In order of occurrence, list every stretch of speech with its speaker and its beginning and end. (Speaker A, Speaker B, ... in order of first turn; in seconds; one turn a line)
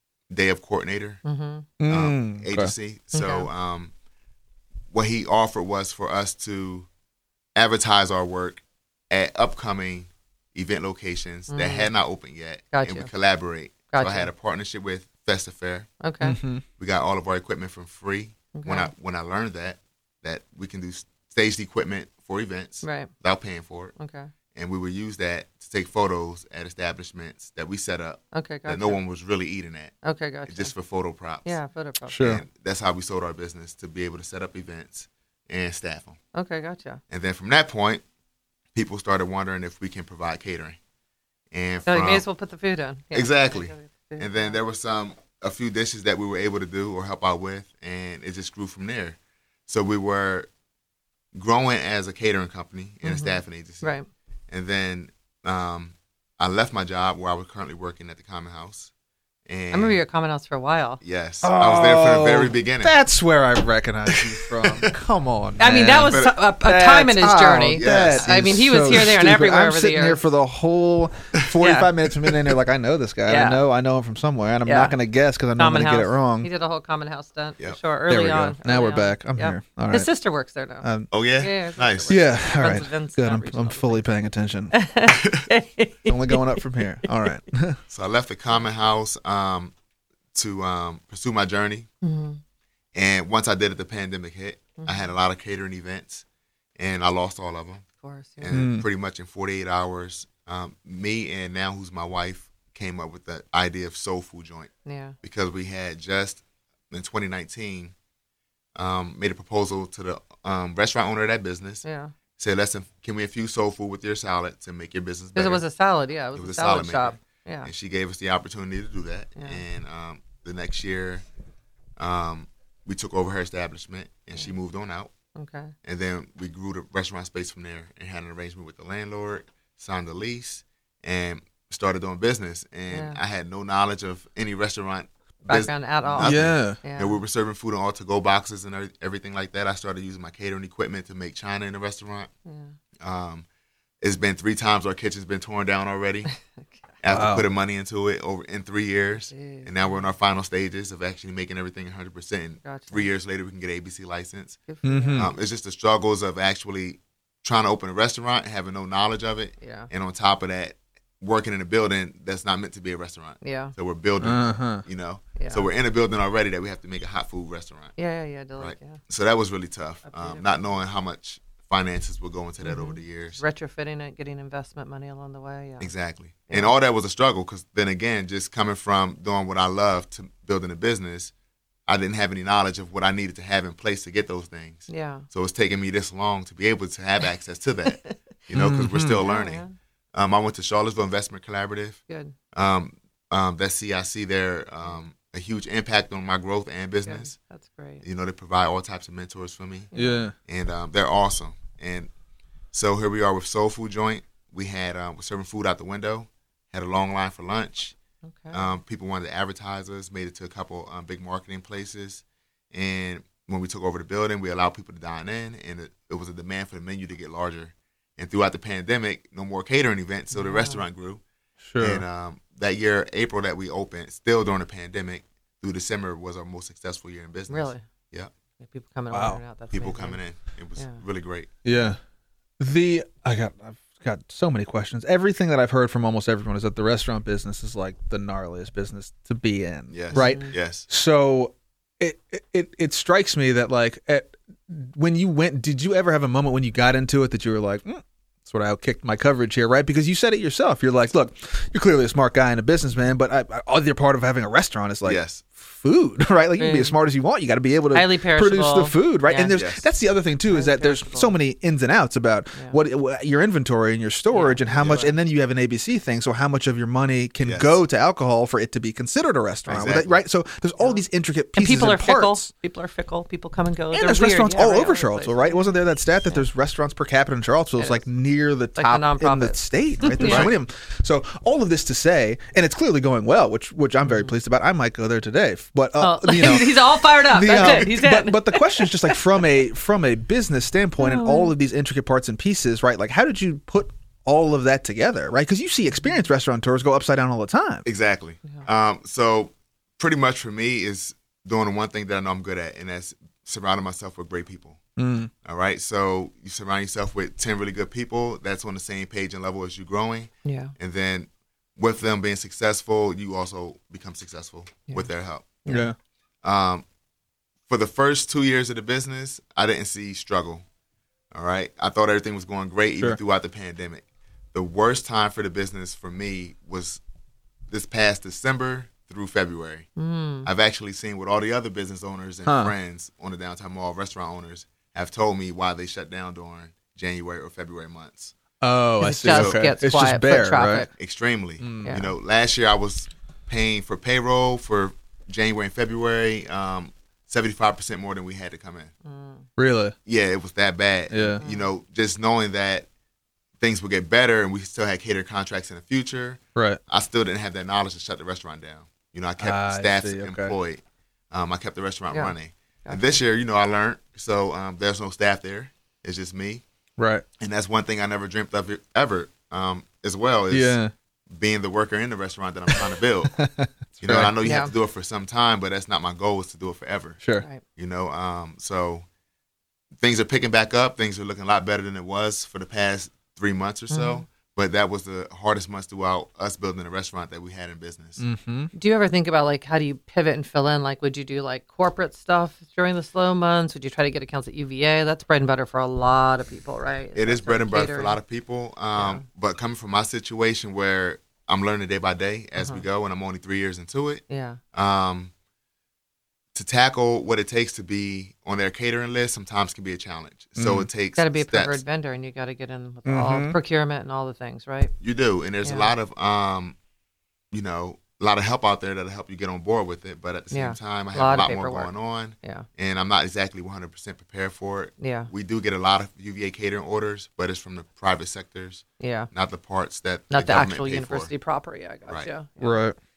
Speaker A: 0.3-1.2
Speaker B: 1.2-1.7
Speaker C: 1.8-2.7
Speaker A: 1.9-3.9
Speaker B: 3.1-3.5
Speaker A: 4.9-6.9
Speaker A: 7.5-15.9
Speaker B: 11.5-11.9
Speaker B: 12.7-13.1
Speaker B: 13.9-14.3
Speaker B: 16.0-16.4
Speaker C: 16.2-16.6
Speaker A: 16.8-23.9
Speaker B: 18.5-18.9
Speaker B: 22.8-23.1
Speaker B: 24.0-24.3
Speaker A: 24.5-29.9
Speaker B: 28.3-29.0
Speaker B: 30.0-30.7
Speaker A: 30.5-31.6
Speaker B: 31.4-32.3
Speaker C: 32.1-32.4
Speaker A: 32.2-36.2
Speaker B: 36.3-37.0
Speaker A: 37.1-38.0
Speaker A: 38.7-40.8
Speaker A: 41.5-42.2
Speaker B: 41.9-44.6
Speaker A: 43.1-50.5
Speaker A: 51.3-53.9
Speaker B: 53.0-54.1
Speaker A: 54.5-58.9
Speaker A: 59.5-60.0
Speaker B: 59.7-61.0
Speaker A: 61.0-63.0
Speaker C: 61.4-76.5
Speaker A: 64.1-64.9
Speaker B: 65.6-70.2
Speaker A: 66.1-66.4
Speaker A: 67.8-68.6
Speaker B: 71.6-71.9
Speaker B: 73.3-73.6
Speaker B: 74.7-74.9
Speaker B: 75.5-80.8
Speaker C: 78.1-80.1
Speaker C: 80.8-81.1
Speaker A: 81.1-82.2
Speaker B: 81.4-84.1
Speaker C: 82.1-84.7
Speaker B: 84.7-87.3
Speaker A: 85.1-85.5
Speaker C: 86.0-87.8
Speaker A: 87.9-89.7
Speaker A: 90.3-91.9
Speaker B: 92.0-92.4
Speaker A: 92.9-96.2
Speaker B: 94.8-95.1
Speaker A: 96.8-97.8
Speaker B: 98.0-98.6
Speaker A: 98.4-104.7
Speaker C: 98.5-98.8
Speaker B: 104.8-105.1
Speaker A: 105.2-107.9
Speaker A: 108.8-111.8
Speaker B: 111.8-112.1
Speaker A: 112.4-115.6
Speaker B: 115.3-117.7
Speaker A: 116.3-121.2
Speaker A: 122.0-125.1
Speaker B: 125.3-125.7
Speaker A: 125.8-142.3
Speaker B: 132.9-133.2
Speaker B: 135.5-137.2
Speaker C: 136.2-136.8
Speaker B: 142.4-142.7
Speaker A: 143.0-143.4
Speaker A: 144.0-146.3
Speaker A: 147.0-154.6
Speaker C: 147.1-147.4
Speaker B: 149.3-150.1
Speaker B: 152.6-153.1
Speaker B: 154.7-155.3
Speaker C: 154.8-155.3
Speaker A: 155.1-167.9
Speaker B: 159.6-159.9
Speaker B: 163.4-163.7
Speaker C: 164.2-164.8
Speaker B: 165.4-165.7
Speaker B: 168.0-169.0
Speaker A: 168.6-173.4
Speaker B: 170.1-170.5
Speaker B: 172.6-175.9
Speaker A: 175.8-181.3
Speaker A: 181.9-192.0
Speaker B: 184.9-185.2
Speaker C: 188.5-189.2
Speaker B: 189.2-189.7
Speaker B: 192.1-192.3
Speaker A: 192.5-197.3
Speaker B: 197.1-198.0
Speaker A: 198.0-199.9
Speaker B: 199.9-200.2
Speaker C: 199.9-200.3
Speaker A: 200.4-202.1
Speaker A: 202.7-207.9
Speaker B: 208.2-208.7
Speaker A: 208.5-221.2
Speaker B: 220.3-220.8
Speaker C: 221.6-222.0
Speaker A: 221.8-228.3
Speaker B: 227.5-227.8
Speaker B: 228.6-230.2
Speaker C: 229.1-229.4
Speaker A: 229.7-231.5
Speaker C: 231.6-232.0
Speaker C: 232.6-272.5
Speaker A: 239.9-240.8
Speaker B: 240.1-240.5
Speaker A: 255.0-255.4
Speaker B: 256.6-256.9
Speaker B: 257.9-259.6
Speaker A: 259.5-259.9
Speaker B: 260.5-261.4
Speaker B: 264.3-265.1
Speaker A: 264.7-265.0
Speaker A: 267.4-267.8
Speaker A: 269.7-270.1
Speaker B: 270.8-271.0
Speaker B: 271.5-275.7
Speaker C: 273.9-297.9
Speaker B: 277.8-278.1
Speaker B: 278.8-280.5
Speaker A: 280.2-280.5
Speaker B: 284.0-284.3
Speaker B: 286.0-289.2
Speaker B: 291.0-291.5
Speaker B: 295.9-296.2
Speaker A: 297.9-304.8
Speaker C: 305.0-305.3
Speaker A: 305.4-315.6
Speaker B: 310.4-310.7
Speaker C: 315.6-315.9
Speaker A: 316.4-316.8
Speaker A: 317.7-320.6
Speaker A: 321.3-324.0
Speaker A: 324.5-327.0
Speaker A: 327.7-329.9
Speaker B: 330.0-330.5
Speaker A: 330.4-338.3
Speaker C: 332.4-332.7
Speaker C: 338.6-340.9
Speaker B: 339.0-340.9
Speaker A: 339.2-339.6
Speaker A: 341.0-348.9
Speaker C: 341.6-341.9
Speaker B: 341.8-342.1
Speaker B: 349.0-349.4
Speaker C: 349.6-349.9
Speaker A: 350.1-352.9
Speaker C: 351.1-351.4
Speaker B: 351.4-351.7
Speaker A: 353.6-366.6
Speaker C: 359.4-360.5
Speaker B: 362.8-363.1
Speaker C: 367.0-367.2
Speaker A: 367.4-370.8
Speaker C: 370.5-370.9
Speaker A: 371.3-373.4
Speaker C: 372.7-374.3
Speaker A: 374.0-377.2
Speaker B: 374.4-374.7
Speaker A: 377.8-379.0
Speaker A: 380.0-388.2
Speaker B: 383.9-384.2
Speaker C: 388.2-388.7
Speaker B: 388.7-398.2
Speaker A: 397.1-405.3
Speaker B: 398.9-399.2
Speaker B: 402.6-402.8
Speaker B: 404.3-404.6
Speaker A: 406.5-411.8
Speaker C: 410.6-410.9
Speaker B: 411.1-414.9
Speaker C: 413.1-413.6
Speaker A: 415.0-416.8
Speaker B: 415.6-415.9
Speaker A: 417.5-431.3
Speaker B: 420.5-422.6
Speaker B: 425.0-425.3
Speaker B: 429.0-429.3
Speaker B: 430.3-432.8
Speaker C: 432.6-432.9